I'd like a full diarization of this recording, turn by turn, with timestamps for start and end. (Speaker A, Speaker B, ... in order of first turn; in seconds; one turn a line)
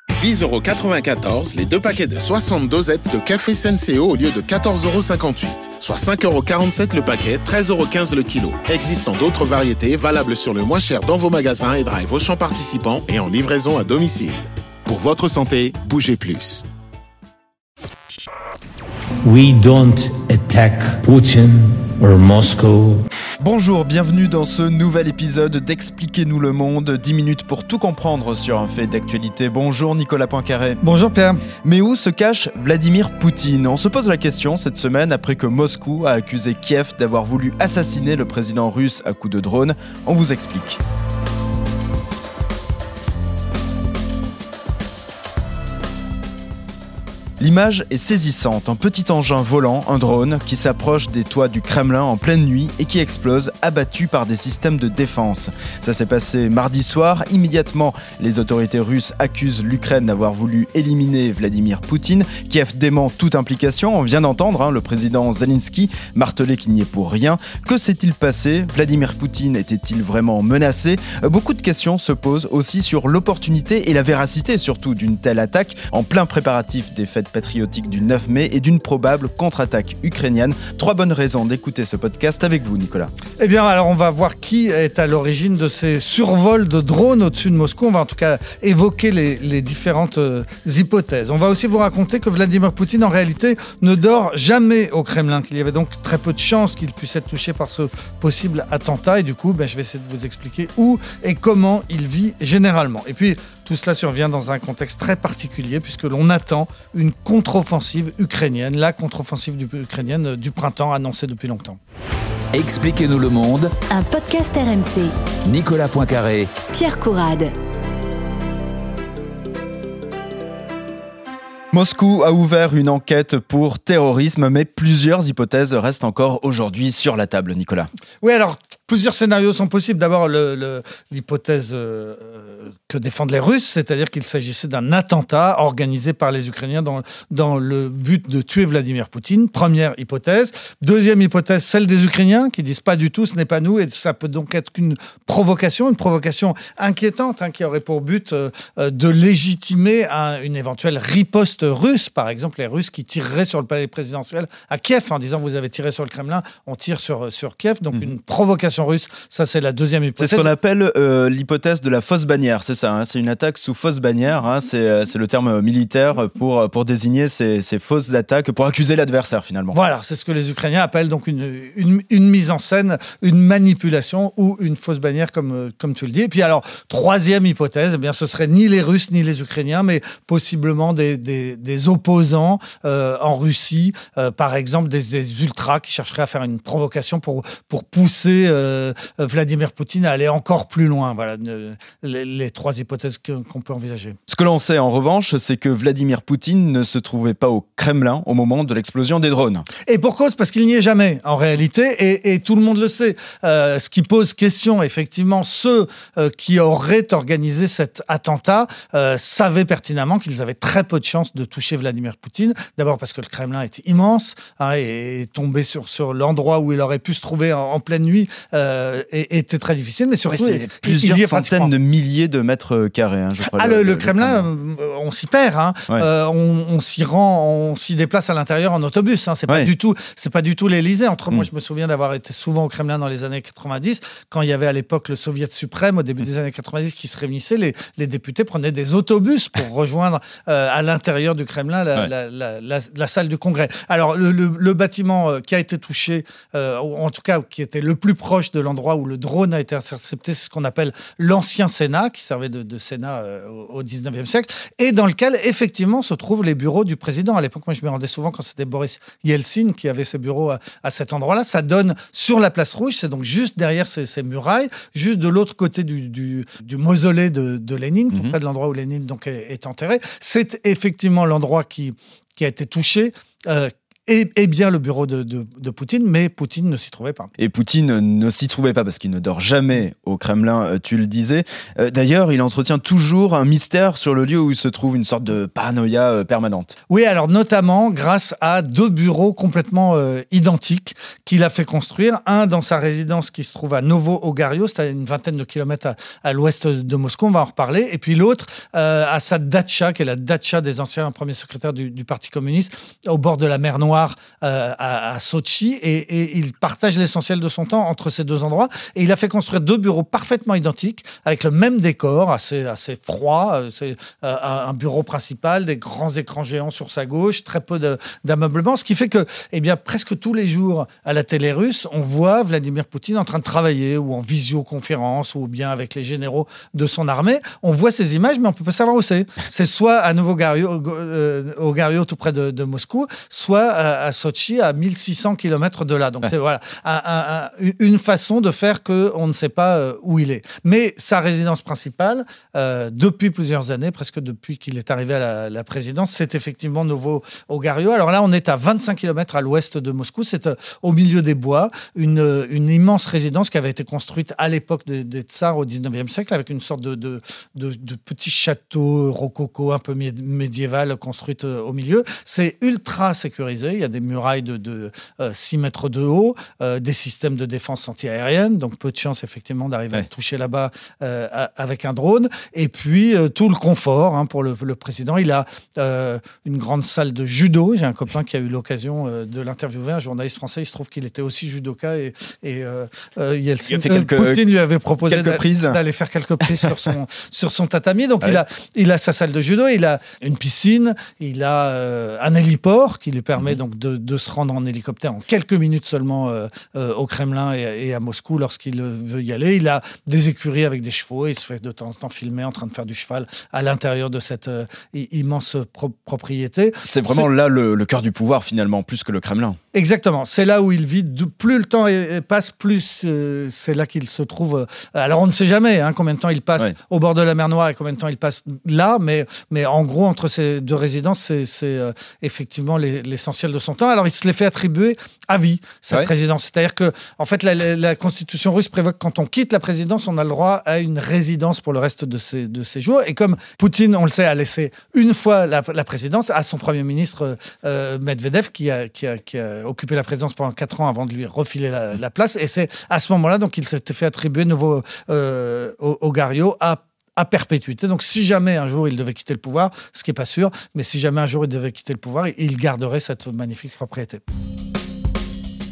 Speaker A: 0.2-16.6
Speaker B: 19.2-23.0
Speaker C: 23.4-30.8
Speaker D: 30.8-31.4
Speaker C: 31.6-40.8
Speaker C: 47.4-83.1
Speaker D: 83.4-111.8
Speaker E: 112.5-113.7
Speaker F: 113.9-115.1
Speaker E: 115.5-116.6
Speaker F: 116.6-117.5
Speaker C: 121.7-127.9
Speaker D: 128.2-160.5
Speaker C: 160.2-169.8
Speaker D: 169.7-194.2
Speaker C: 194.3-199.7
Speaker D: 199.8-221.7
Speaker C: 220.3-224.5
Speaker D: 223.4-277.3
Speaker C: 268.1-268.4
Speaker C: 277.4-286.8
Speaker D: 286.9-407.3
Speaker C: 383.7-384.5
Speaker C: 385.1-385.8
Speaker C: 406.8-409.6
Speaker D: 409.7-454.2